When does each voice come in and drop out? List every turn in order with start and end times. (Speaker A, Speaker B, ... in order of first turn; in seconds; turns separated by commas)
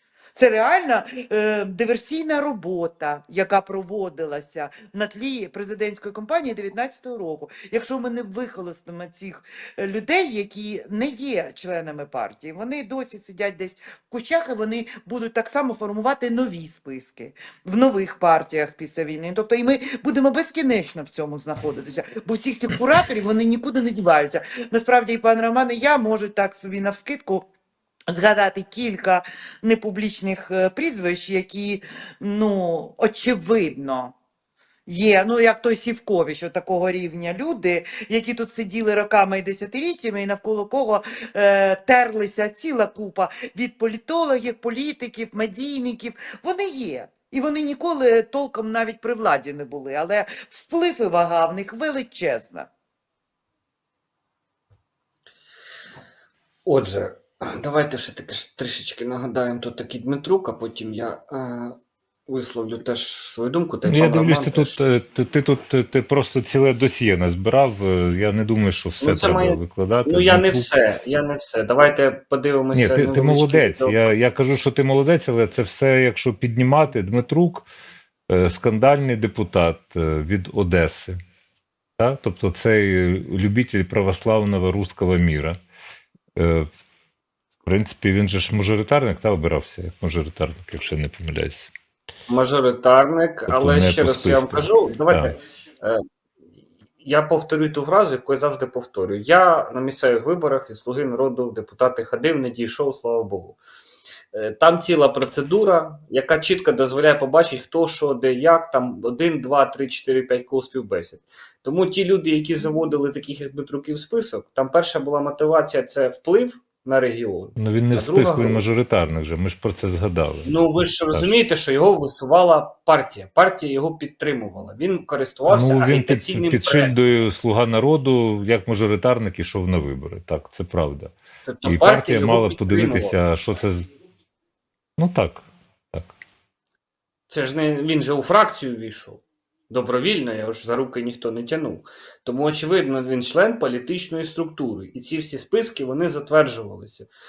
Speaker A: 0.3-27.5, Speaker A: 28.1-34.1, Speaker A: 34.9-52.7, Speaker B: 56.7-64.8, Speaker C: 63.9-70.7, Speaker B: 69.0-74.0, Speaker C: 72.7-77.7, Speaker C: 78.3-81.2, Speaker C: 82.0-85.6, Speaker C: 86.3-86.7, Speaker C: 87.6-91.7, Speaker B: 92.3-96.0, Speaker C: 93.5-95.3, Speaker B: 97.0-103.6, Speaker B: 104.3-118.6, Speaker C: 117.6-120.6, Speaker B: 120.5-126.9, Speaker C: 125.5-131.1, Speaker B: 131.5-133.2, Speaker C: 131.7-133.9, Speaker C: 135.0-136.1, Speaker B: 137.3-147.1